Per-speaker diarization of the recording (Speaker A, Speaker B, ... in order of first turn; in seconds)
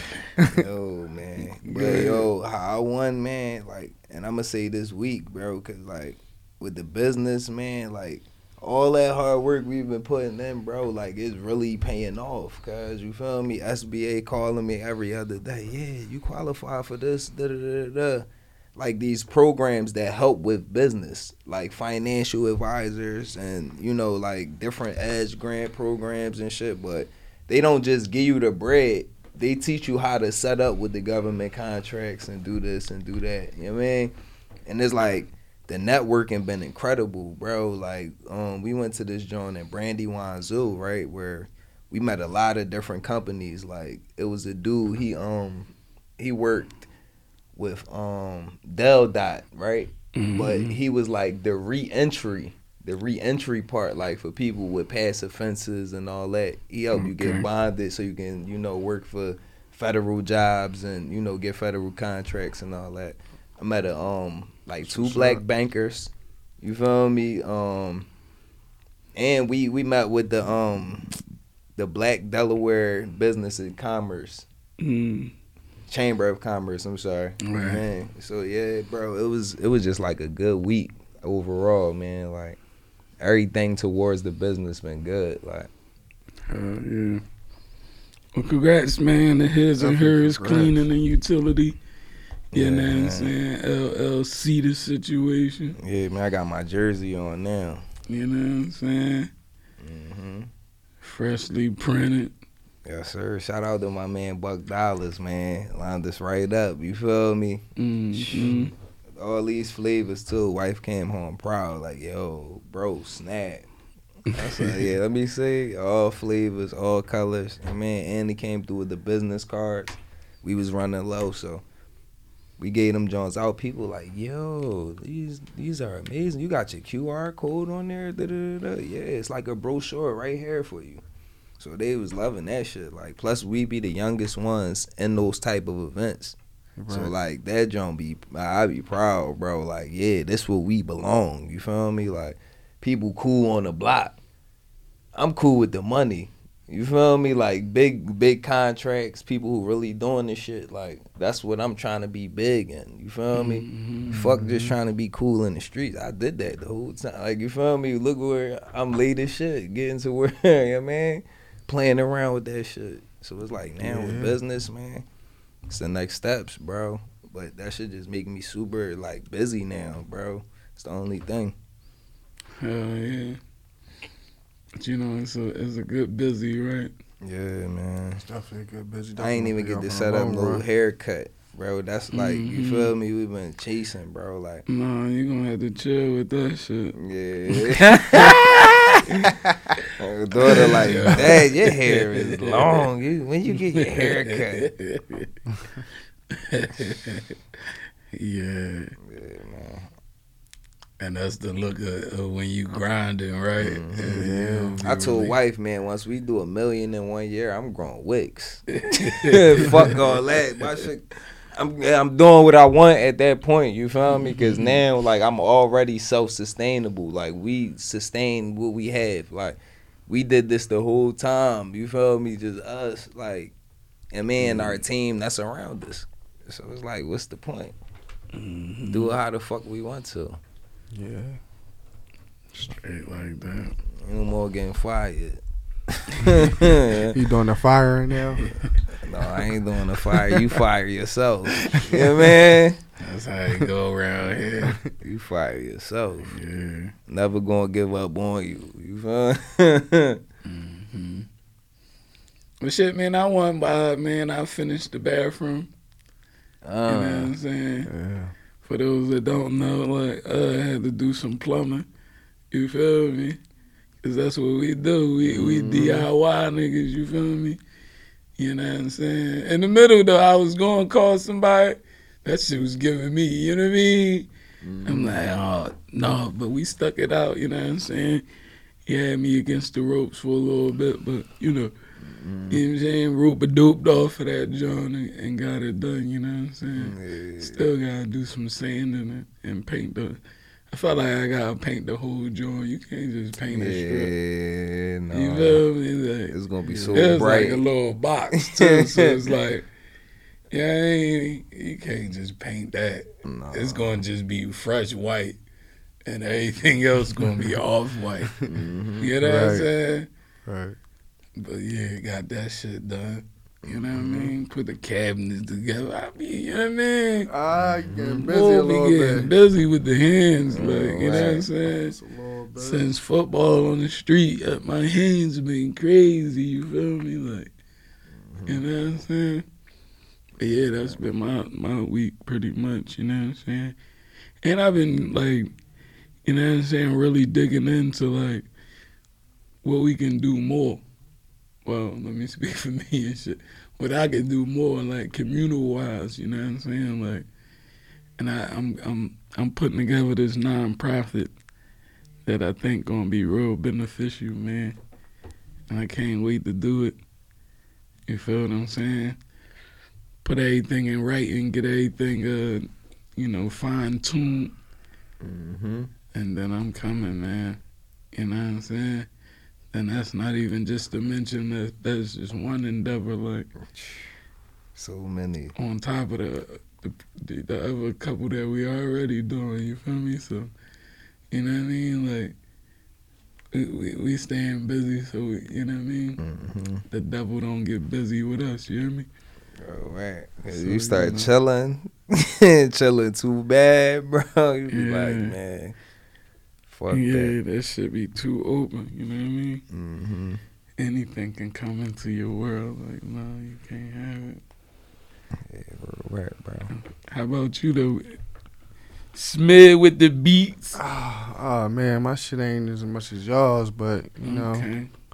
Speaker A: 0.5-34.1, 34.6-46.9, 47.5-68.1, 69.2-71.0, 71.8-74.5, 75.9-82.6, 83.2-85.7, 92.5-93.3, 95.8-97.8, 99.8-100.5, 102.8-113.7, 114.3-121.6, 122.6-131.0, 131.6-136.4, 136.9-144.2, 145.1-165.1, 165.7-171.5, 177.2-178.2, 179.2-184.6, 186.9-189.3, 189.9-194.7, 199.0-199.9, 203.6-204.2, 204.8-223.5, 224.1-227.8, 228.9-230.4, 234.0-237.2, 239.0-242.8, 245.0-246.3, 247.1-250.2, 256.6-257.3, 265.2-266.1, 274.6-275.2, 282.0-282.6, 286.8-287.6, 293.5-295.6, 296.3-297.6, 298.4-299.2, 303.2-304.0, 308.5-309.1, 313.6-314.3, 317.6-318.2, 320.5-321.4, 328.2-328.6, 365.2-365.9, 373.7-374.1, 374.7-375.5, 386.2-386.8, 389.6-395.8, 396.7-397.3, 399.7-400.4, 405.4-406.7
Speaker B: 1.7-2.1, 89.8-90.8, 136.8-137.1, 154.1-154.7, 163.8-164.3, 178.2-180.6, 204.0-205.2, 230.9-231.4, 237.1-238.4, 240.1-240.5, 241.6-242.4, 257.9-258.3, 307.2-307.5, 309.2-309.7, 310.4-310.8, 317.3-319.3, 321.0-322.9, 410.8-414.7
Speaker C: 1.7-2.2, 50.1-50.8, 56.9-57.5, 64.9-65.3, 74.8-75.3, 77.4-77.8, 86.5-87.2, 88.3-91.8, 92.5-95.8, 98.1-99.3, 101.0-102.3, 107.8-108.7, 114.4-114.7, 153.3-154.2, 172.6-173.4, 174.8-176.9, 182.1-182.9, 184.7-186.9, 187.5-189.0, 190.4-192.9, 193.5-195.3, 196.3-197.3, 198.1-198.9, 201.0-205.3, 208.7-210.2, 214.1-214.8, 228.3-229.2, 232.7-233.7, 243.0-244.8, 246.2-246.9, 250.4-251.2, 252.6-255.7, 256.9-257.9, 258.6-261.9, 262.5-263.4, 264.0-267.6, 268.4-274.3, 274.8-278.2, 278.9-281.7, 282.5-290.2, 290.7-294.1, 295.1-296.3, 296.9-299.6, 300.5-305.4, 306.1-308.3, 309.0-310.1, 311.4-317.3, 318.0-321.9, 322.6-327.5, 328.5-329.4, 330.4-333.8, 334.4-335.5, 336.2-338.5, 339.6-340.8, 341.6-347.2, 348.2-351.3, 352.2-354.8, 355.7-357.0, 358.1-359.2, 360.2-364.5, 366.1-367.6, 368.1-369.1, 369.7-373.5, 375.6-380.5, 381.3-382.3, 383.5-386.2, 386.9-389.1, 390.5-391.3, 394.7-395.4, 396.9-399.6, 400.8-404.4, 406.7-408.1, 409.1-410.8, 414.2-414.9